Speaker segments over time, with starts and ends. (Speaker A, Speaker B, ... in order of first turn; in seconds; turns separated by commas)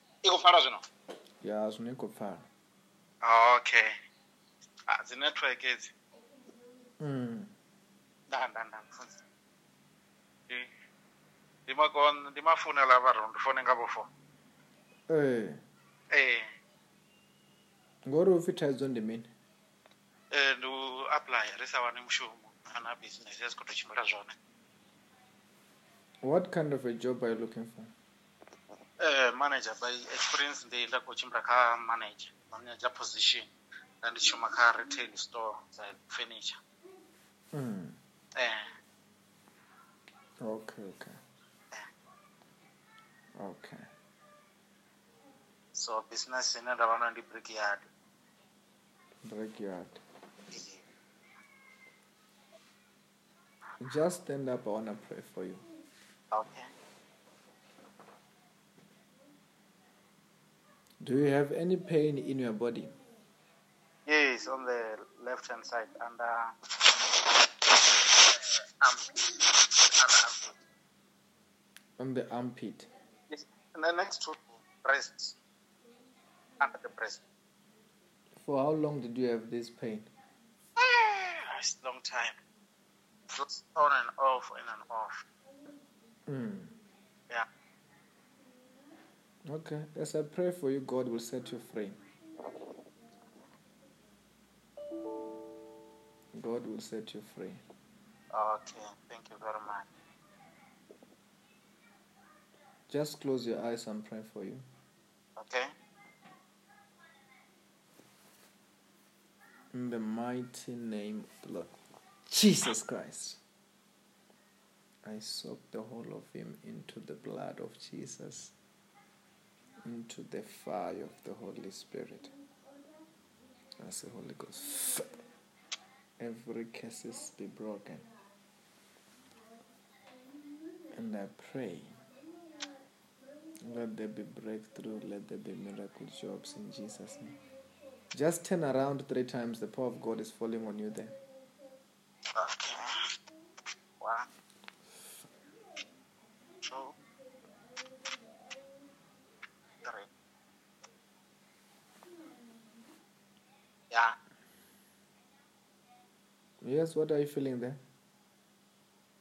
Speaker A: 0.2-0.8, Speaker B: 1.4-2.5, Speaker A: 3.2-3.9, Speaker A: 4.9-5.9, Speaker B: 7.0-7.5, Speaker A: 8.3-9.2, Speaker A: 11.7-14.1, Speaker B: 15.1-15.6, Speaker A: 16.1-16.5, Speaker B: 18.1-19.3, Speaker A: 20.3-24.4, Speaker B: 26.2-27.9, Speaker A: 29.0-33.5, Speaker A: 34.0-36.6, Speaker B: 37.5-38.0, Speaker A: 38.4-38.8, Speaker B: 40.4-41.1, Speaker B: 43.4-43.9, Speaker A: 45.8-47.8, Speaker B: 49.2-50.0, Speaker A: 50.5-50.8, Speaker B: 53.8-55.6, Speaker A: 56.3-56.7, Speaker B: 61.0-63.0, Speaker A: 64.1-70.6, Speaker B: 72.0-72.9, Speaker A: 73.3-75.4, Speaker A: 76.6-77.2, Speaker B: 78.4-80.1, Speaker A: 80.8-82.4, Speaker A: 83.3-85.2, Speaker B: 86.3-86.7, Speaker B: 89.5-92.0, Speaker B: 96.4-97.6, Speaker A: 98.3-99.9, Speaker B: 102.9-104.6, Speaker A: 105.4-105.7, Speaker B: 109.7-111.8, Speaker B: 112.3-113.4, Speaker B: 115.0-118.5, Speaker B: 119.8-122.3, Speaker B: 123.8-125.1, Speaker B: 126.2-128.1, Speaker B: 130.9-132.0, Speaker B: 133.7-137.4, Speaker B: 138.1-141.2, Speaker A: 142.4-142.9, Speaker A: 144.0-144.3, Speaker A: 146.6-146.9, Speaker A: 149.8-150.1, Speaker B: 156.6-157.8